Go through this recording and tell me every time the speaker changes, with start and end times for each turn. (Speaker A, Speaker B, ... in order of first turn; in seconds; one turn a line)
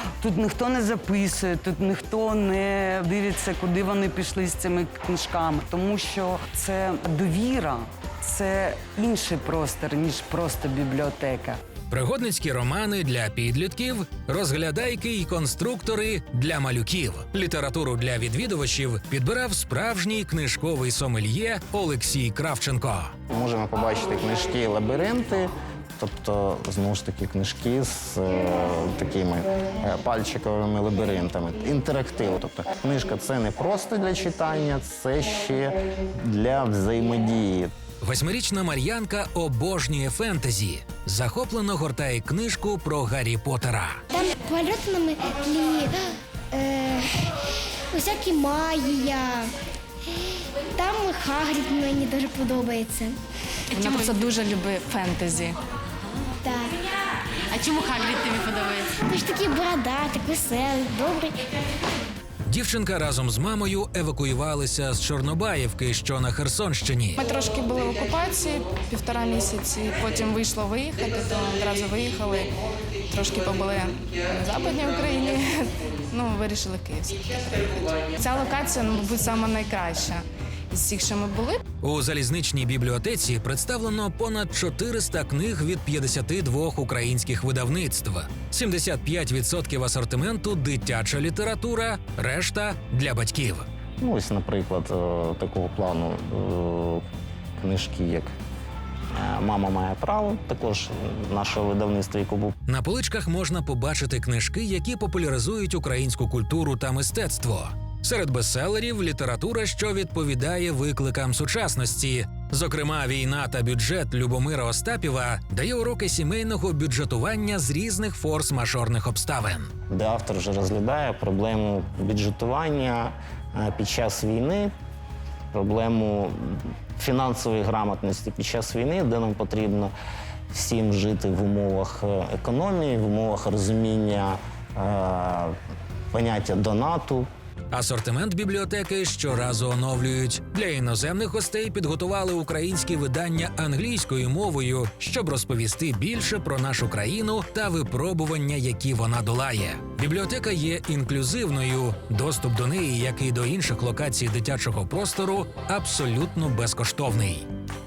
Speaker A: 0.2-11.6
Speaker B: 11.9-23.1
Speaker C: 23.3-37.7
Speaker B: 38.0-44.0
Speaker D: 44.1-49.5
Speaker D: 50.1-53.2
Speaker E: 53.7-55.6
Speaker D: 56.4-56.8
Speaker D: 58.9-61.5
Speaker B: 62.5-67.2
Speaker E: 67.2-81.6
Speaker B: 81.8-93.7
Speaker C: 94.0-97.0
Speaker C: 97.6-98.3
Speaker C: 99.1-102.5
Speaker B: 102.7-119.7
Speaker C: 119.9-124.7
Speaker C: 125.5-129.9
Speaker C: 130.5-135.5
Speaker C: 136.1-137.3
Speaker B: 137.7-157.5